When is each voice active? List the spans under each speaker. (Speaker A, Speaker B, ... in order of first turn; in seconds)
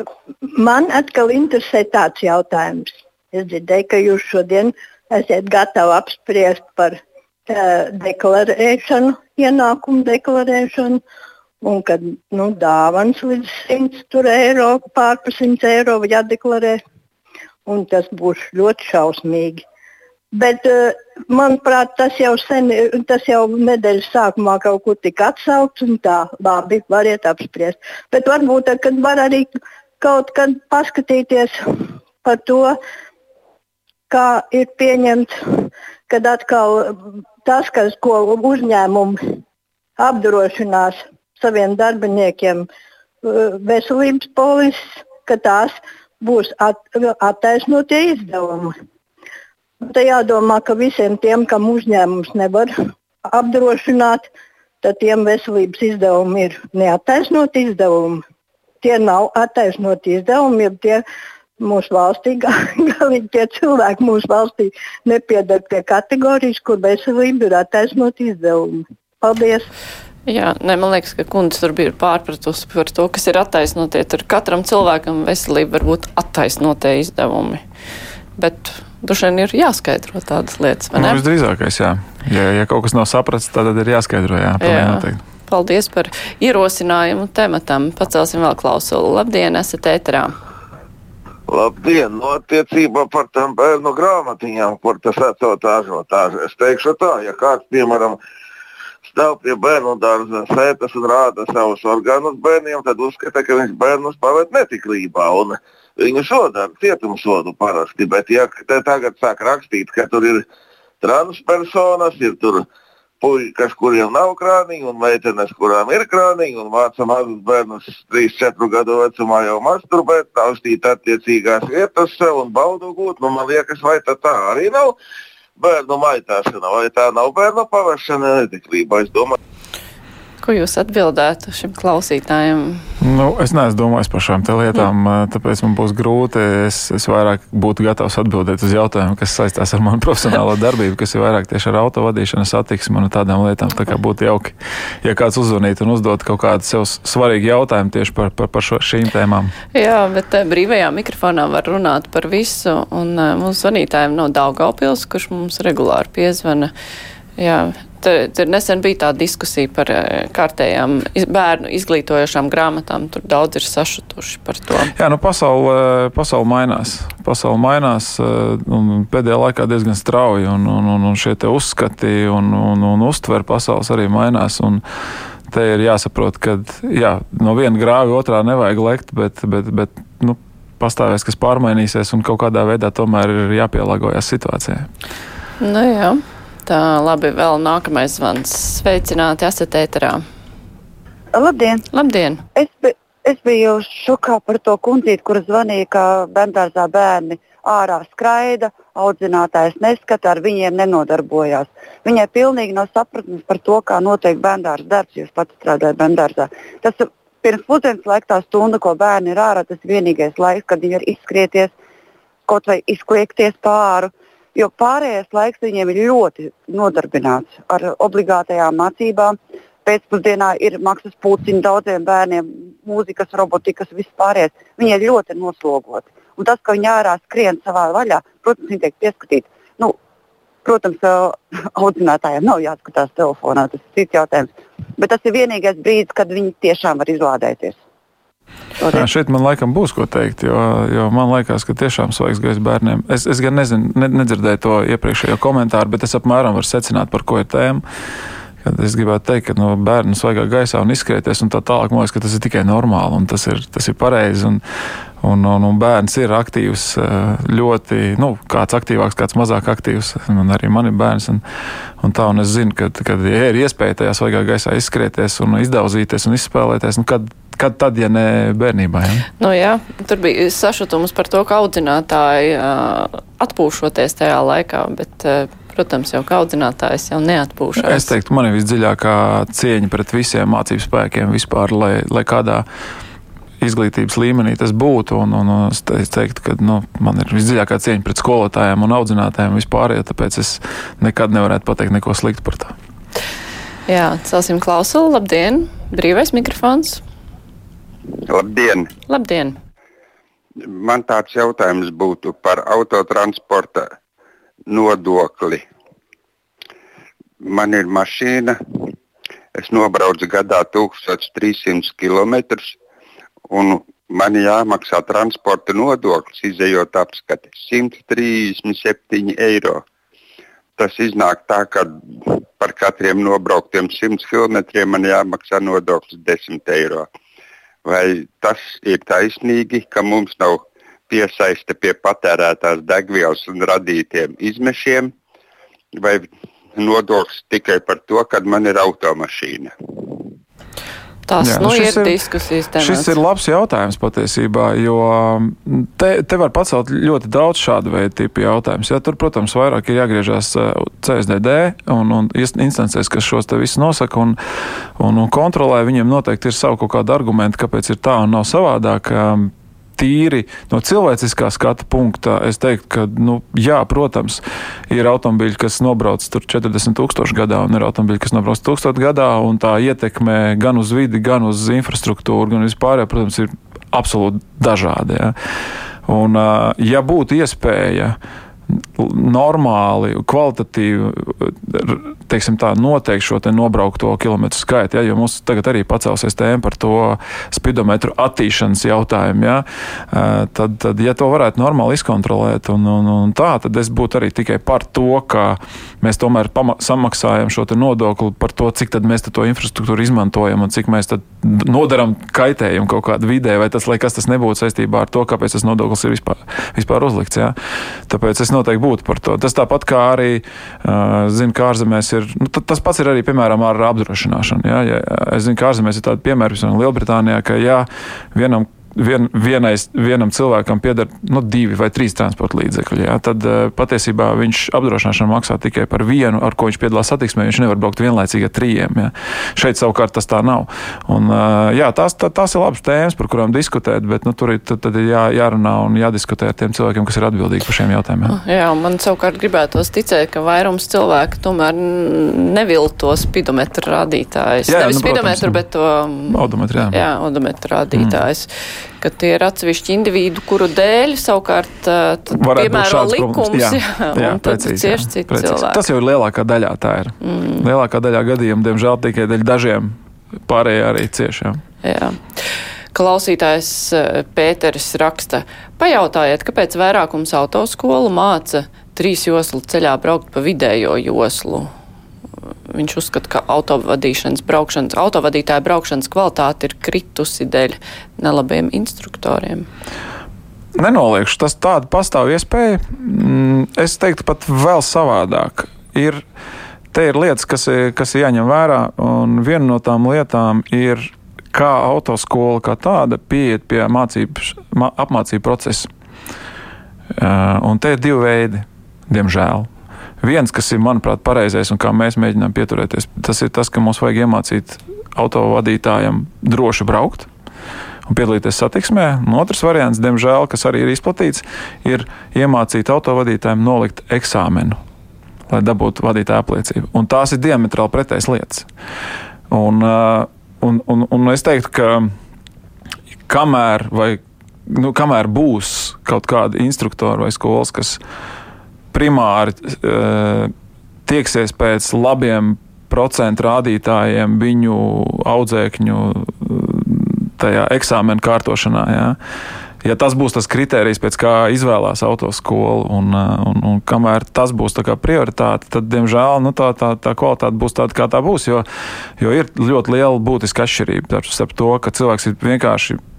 Speaker A: 0.5-11.0, 11.6-16.8, 17.7-19.6, 20.3-31.7, 32.2-32.8, 34.1-39.4, 40.0-42.7, 43.2-48.7, 49.8-52.7, 53.3-54.3, 54.8-58.2, 58.8-61.0, 61.6-69.7
Speaker B: 70.3-77.6, 78.4-81.2, 84.6-90.3, 130.4-132.8, 149.7-156.7, 157.4-164.9, 185.6-190.2, 191.9-192.4, 269.4-278.1, 293.9-297.0, 299.1-299.6, 341.3-343.1, 438.3-446.4, 446.9-448.5, 449.0-455.8, 457.2-457.7, 461.8-471.7, 472.7-479.7
Speaker C: 81.0-85.2, 133.0-149.5, 164.9-174.8, 175.5-184.9, 238.9-247.8, 248.6-254.6, 255.2-261.4, 262.0-269.3, 277.8-282.7, 283.6-292.8, 341.4-342.2, 342.8-354.4, 355.0-375.4, 376.1-378.2, 378.8-407.6, 408.1-438.4, 444.7-445.6, 446.3-447.0, 447.9-448.2, 452.4-461.6, 480.8-486.2, 486.9-495.9, 497.2-499.7, 500.2-507.3, 508.1-514.8, 515.5-518.7, 519.5-522.1, 523.3-528.0, 528.9-530.5, 531.1-539.2, 539.8-548.7, 549.2-553.0
Speaker D: 91.5-98.2, 99.1-110.5, 111.0-112.7, 113.2-125.0, 125.6-129.4
Speaker E: 191.3-191.8, 192.6-211.7, 212.5-229.9, 230.6-237.8
Speaker F: 298.1-298.9, 300.6-303.9, 304.7-305.7, 307.4-308.9, 309.6-312.8, 313.5-319.9, 320.8-327.1, 327.9-335.1, 335.9-340.3